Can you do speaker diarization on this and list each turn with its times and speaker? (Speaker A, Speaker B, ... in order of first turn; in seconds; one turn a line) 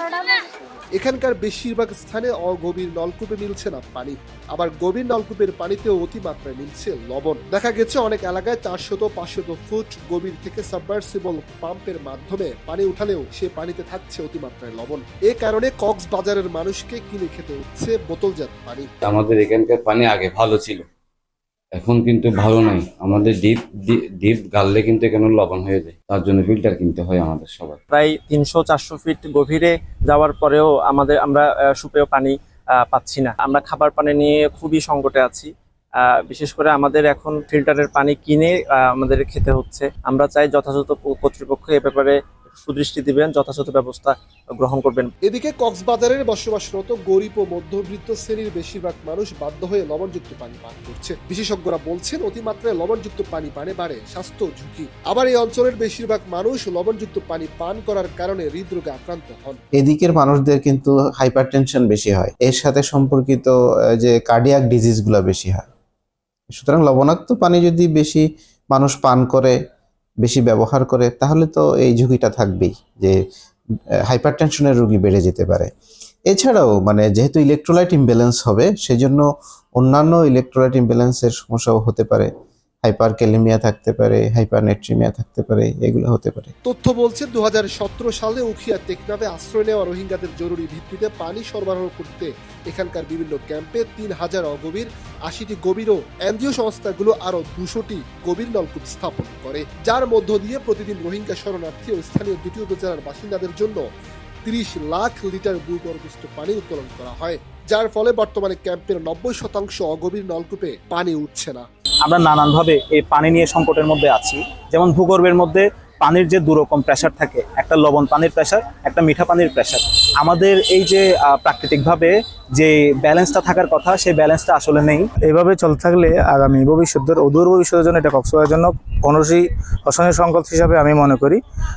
Speaker A: 0.9-18.9
Speaker B: 19.0-20.9
Speaker B: 21.8-27.8
Speaker C: 27.9-35.5
Speaker C: 36.0-45.1
Speaker A: 45.2-59.6
Speaker D: 59.8-65.7
Speaker D: 66.5-69.5
Speaker D: 70.2-73.2
Speaker D: 74.1-75.7
Speaker D: 76.3-79.2
Speaker D: 79.8-82.3
Speaker D: 82.8-86.5
Speaker A: 86.6-103.8
Speaker A: 104.4-111.7
Speaker E: 112.0-125.1
Speaker F: 125.2-131.4